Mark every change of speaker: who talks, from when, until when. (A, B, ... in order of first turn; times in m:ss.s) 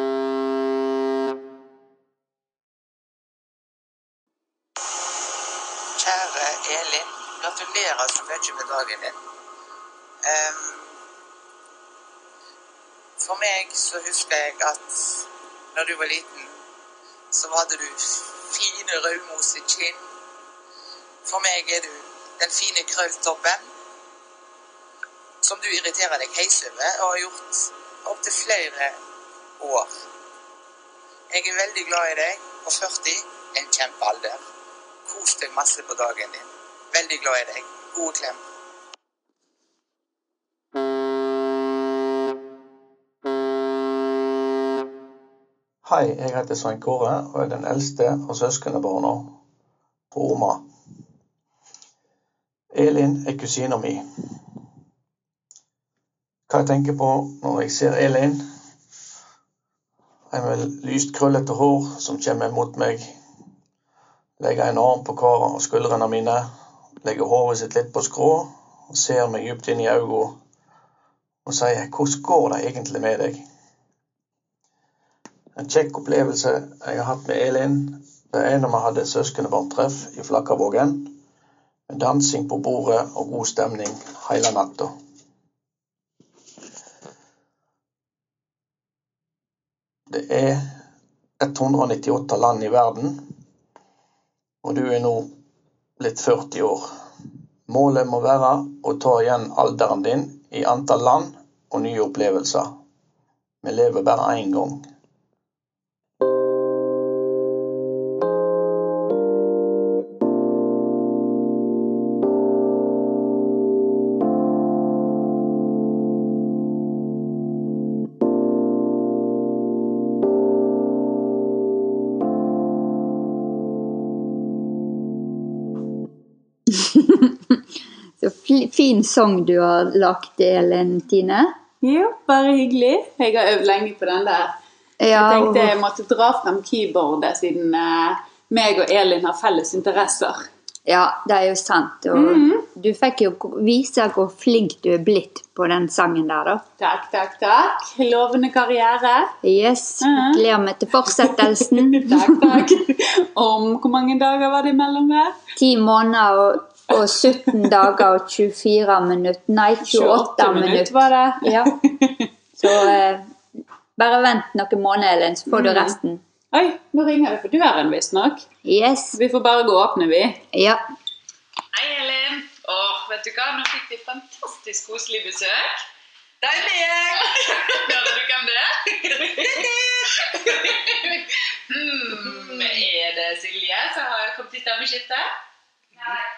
0:06.0-0:09.2 A
0:10.2-0:11.0 A
0:13.2-0:16.6 A
0:17.3-0:20.0 A
0:21.2-0:23.7 A
0:25.4-0:29.0 A
0:29.6-0:29.9 A
0:31.3-0:34.4 A
0:35.0-0:38.4 A
0:45.8-0:49.4 B
0:50.1-0:50.7 B
0:52.7-0:54.1 B
0:56.5-0:58.5 B
1:00.3-1:03.1 B
1:04.4-1:10.4 B
1:11.4-1:13.4 B
1:15.6-1:21.2 B
1:21.9-1:25.0 B
1:30.1-1:30.8 B
1:31.4-1:33.3 B
1:34.6-1:35.4 B
1:36.0-1:36.9 B
1:37.7-1:42.8 B
1:43.6-1:44.9 B
2:06.7-2:07.6 C
2:08.2-2:11.6 C
2:11.8-2:14.6 D
2:15.0-2:15.8 C
2:15.1-2:20.5 D
2:20.9-2:26.6 C
2:22.1-2:22.7 D
2:26.8-2:29.4 D
2:29.4-2:32.7 C
2:30.0-2:30.4 D
2:31.9-2:35.4 D
2:35.6-2:41.8 C
2:39.8-2:42.9 D
2:42.6-2:43.4 C
2:44.0-2:46.2 C
2:45.5-2:46.0 D
2:46.5-2:48.4 D
2:48.6-2:49.2 C
2:49.1-2:50.4 D
2:50.5-2:50.8 C
2:51.7-2:55.8 D
2:56.4-2:57.9 E
2:57.2-3:05.3 D
2:59.2-3:00.8 E
3:02.1-3:02.8 E
3:05.9-3:06.2 E